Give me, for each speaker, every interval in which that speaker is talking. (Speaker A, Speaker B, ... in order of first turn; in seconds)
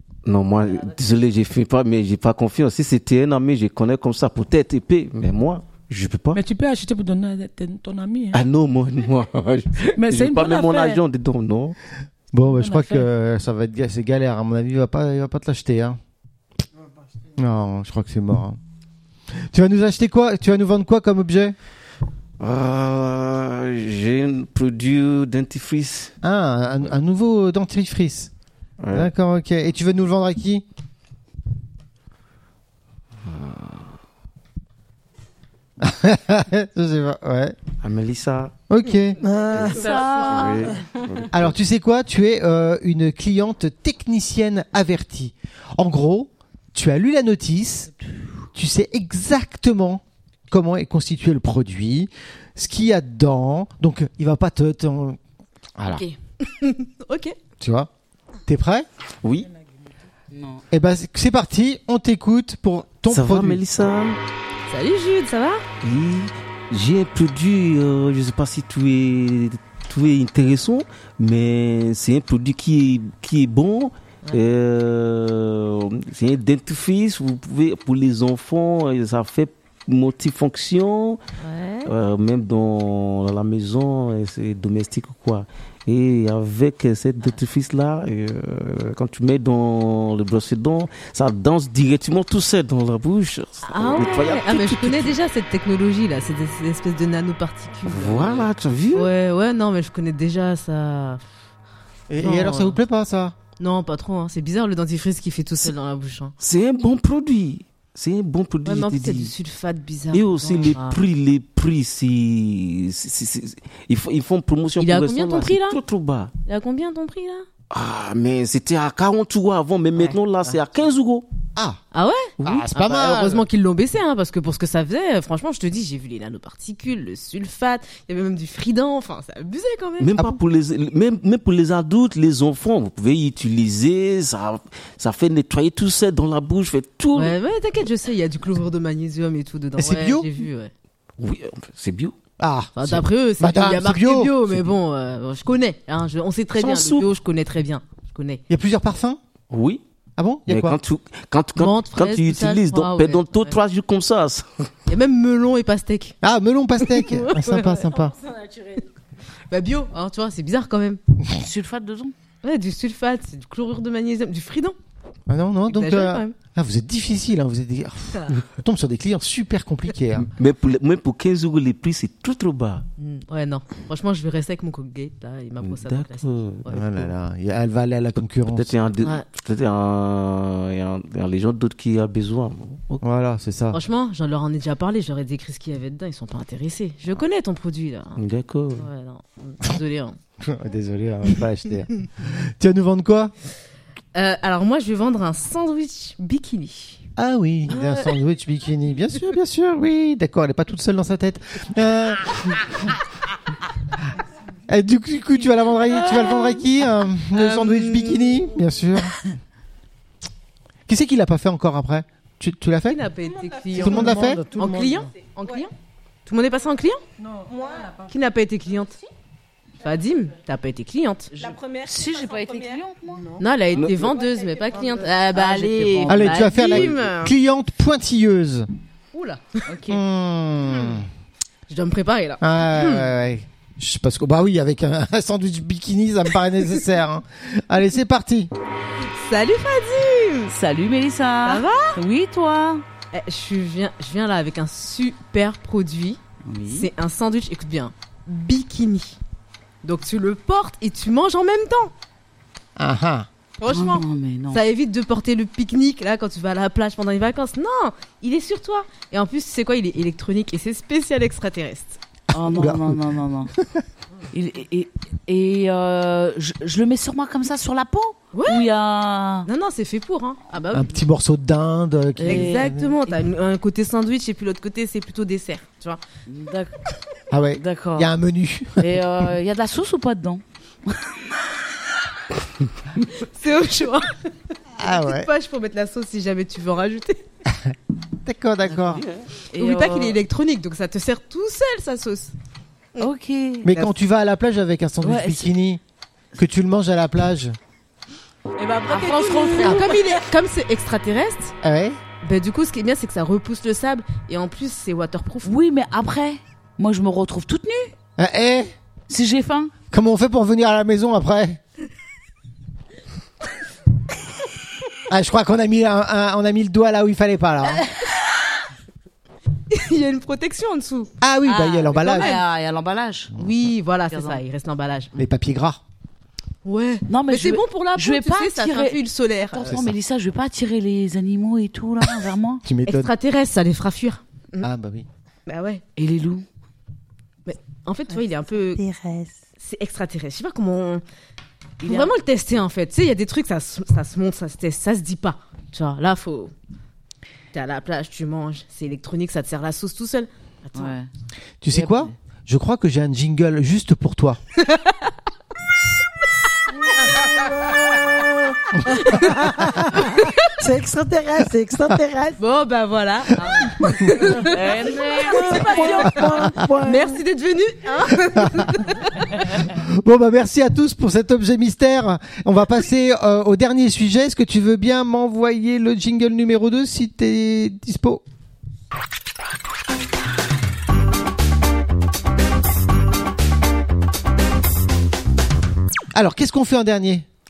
Speaker A: 0.2-6.4, 8.3-11.8, 22.4-26.1, 28.8-29.1, 33.2-33.9, 37.8-38.5, 40.3-41.4, 59.2-59.5, 63.1-64.2, 65.8-81.2, 81.8-95.2, 97.8-99.1, 106.4-109.3, 110.1-116.3, 117.7-121.2, 122.4-122.7, 130.0-137.4, 141.2-142.2, 146.5-147.1, 149.5-149.8, 150.5-154.7, 170.3-172.8, 175.6-177.1, 178.5-183.0, 188.2-188.9, 223.7-224.1
Speaker B: 6.3-8.4, 9.9-11.0, 12.5-13.1, 217.2-218.0
Speaker C: 12.3-16.0, 17.4-18.6, 19.3-21.5, 26.2-28.3, 28.9-30.6, 35.8-37.5, 38.7-39.2, 41.3-47.9, 48.5-55.2, 55.8-56.0, 57.6-57.9, 58.5-58.9, 60.7-63.6, 102.1-103.3, 122.4-123.5, 139.8-140.3, 142.4-144.4, 148.5-149.2, 150.2-150.8, 156.2-158.1, 165.3-170.3, 176.7-178.7, 183.0-183.8, 190.4-193.3, 197.2-202.9, 204.7-209.2, 210.9-213.0, 213.7-214.4, 226.1-228.7, 229.9-231.1, 232.4-238.5, 252.8-253.3, 262.3-263.1, 270.7-272.9, 277.3-278.9, 284.8-285.3, 287.6-289.0, 293.6-295.8, 296.4-297.6, 301.6-302.0, 308.2-308.7, 309.9-311.6, 315.1-317.8, 321.2-322.4, 325.2-325.8, 329.7-329.9, 332.6-333.1, 334.6-335.1, 351.6-354.4, 366.3-366.7, 368.3-368.7, 369.6-378.2, 386.1-387.2
Speaker D: 39.2-39.9, 213.8-215.1, 338.7-339.4, 356.9-362.4, 365.3-367.2
Speaker E: 39.3-40.7, 55.9-57.4, 64.7-65.7, 81.4-81.9, 93.6-101.2, 102.2-102.8, 103.6-106.3, 108.6-111.0, 114.8-115.8, 116.4-117.5, 120.0-120.5, 121.9-130.2, 137.1-140.7, 142.7-148.4, 151.6-153.6, 154.9-156.2, 156.8-157.8, 159.5-161.0, 162.4-164.8, 165.7-166.3, 173.0-176.8, 183.7-188.2, 188.8-190.2, 194.1-197.1, 197.7-198.0, 205.9-206.6, 207.3-208.4, 212.8-215.7, 216.2-217.0, 218.1-219.0, 219.8-221.5, 223.4-227.3, 229.1-229.6, 231.7-233.1, 239.0-240.5, 241.4-242.0, 243.1-249.2, 249.8-251.9, 253.6-262.0, 268.3-268.7, 269.4-270.9, 272.2-276.0, 283.1-284.1, 284.8-287.2, 289.5-292.3, 299.0-301.5, 302.2-305.5, 319.7-322.4, 323.4-325.2, 326.6-329.7, 332.9-334.7, 335.5-335.8, 337.4-338.8, 339.6-341.0, 341.8-346.5, 347.5-350.9, 358.9-359.4, 360.0-360.3, 362.4-369.3
Speaker F: 39.6-40.8, 60.3-60.6, 161.3-162.1, 221.8-223.2, 225.3-226.6, 229.7-230.0, 240.5-242.8, 246.4-246.9, 253.7-254.6, 262.3-263.5, 264.3-269.5, 272.2-273.1, 276.3-276.8, 277.6-278.1, 278.8-281.3, 288.6-290.2, 293.0-293.9, 295.0-295.5, 298.9-299.9, 305.4-307.9, 309.1-309.7, 321.9-323.3, 324.1-324.4, 327.1-332.6, 336.0-336.4, 341.8-342.1, 350.7-351.1, 351.7-352.1, 364.3-366.0
Speaker G: 39.6-40.6, 157.7-158.8, 213.2-213.9, 217.5-218.1, 221.3-222.8, 224.0-225.1, 298.6-299.9